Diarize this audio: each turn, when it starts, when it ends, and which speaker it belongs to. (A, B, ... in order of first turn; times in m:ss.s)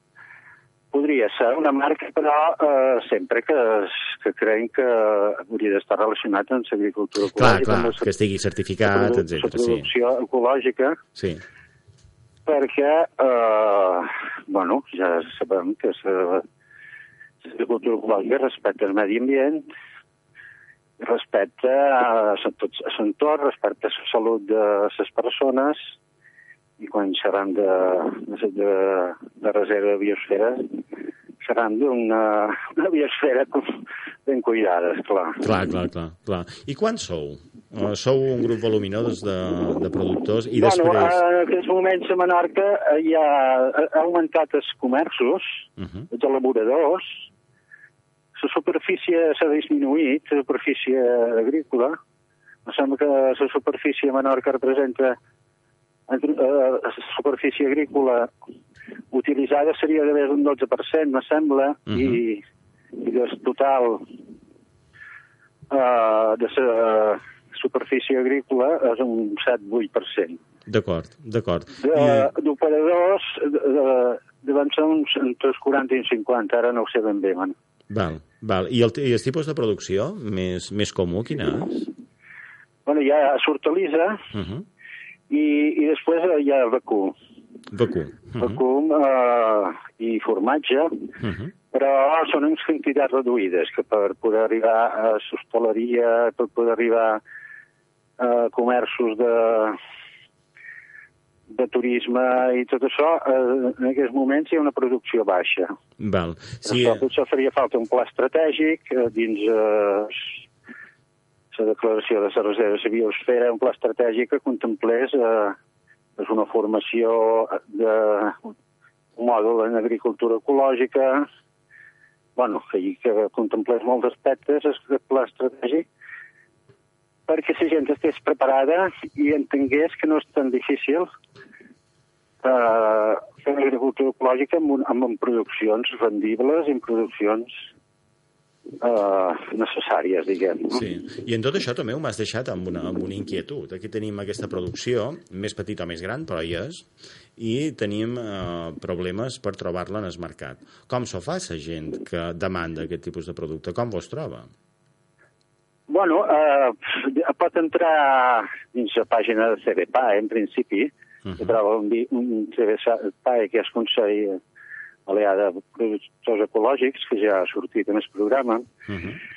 0:00.9-0:08.1 A
0:07.4-0:09.9 B
0:08.8-0:11.0 A
0:11.2-0:11.4 B
0:12.5-0:16.4 A
0:17.4-0:19.6 A
0:21.0-0:25.8 A
0:26.8-0:30.8 A
0:31.4-0:35.4 A
0:35.4-0:41.2 B
0:40.5-0:47.0 A
0:45.8-0:46.1 B
0:48.4-0:52.0 A
0:52.7-0:55.2 A
0:56.1-0:58.3 A
0:59.1-1:02.4 A
1:01.9-1:02.2 B
1:03.0-1:04.1 A
1:05.7-1:10.4 A
1:10.7-1:12.3 B
1:11.8-1:17.6 A
1:17.9-1:21.9 B
1:22.9-1:24.2 A
1:24.3-1:24.7 B
1:25.3-1:27.2 A
1:27.7-1:28.6 B
1:28.4-1:31.1 A
1:31.2-1:31.5 B
1:31.7-1:37.2 A
1:38.2-1:39.8 A
1:41.5-1:45.7 A
1:46.0-1:47.0 B
1:46.6-1:50.4 A
1:51.5-1:55.6 A
1:56.2-1:58.5 A
1:59.2-2:01.3 A
2:02.4-2:05.8 A
2:07.3-2:11.1 A
2:12.4-2:17.6 A
2:18.8-2:20.8 A
2:20.7-2:34.5 B
2:35.9-2:44.4 A
2:41.2-2:41.6 B
2:45.1-2:48.7 A
2:48.9-2:49.2 B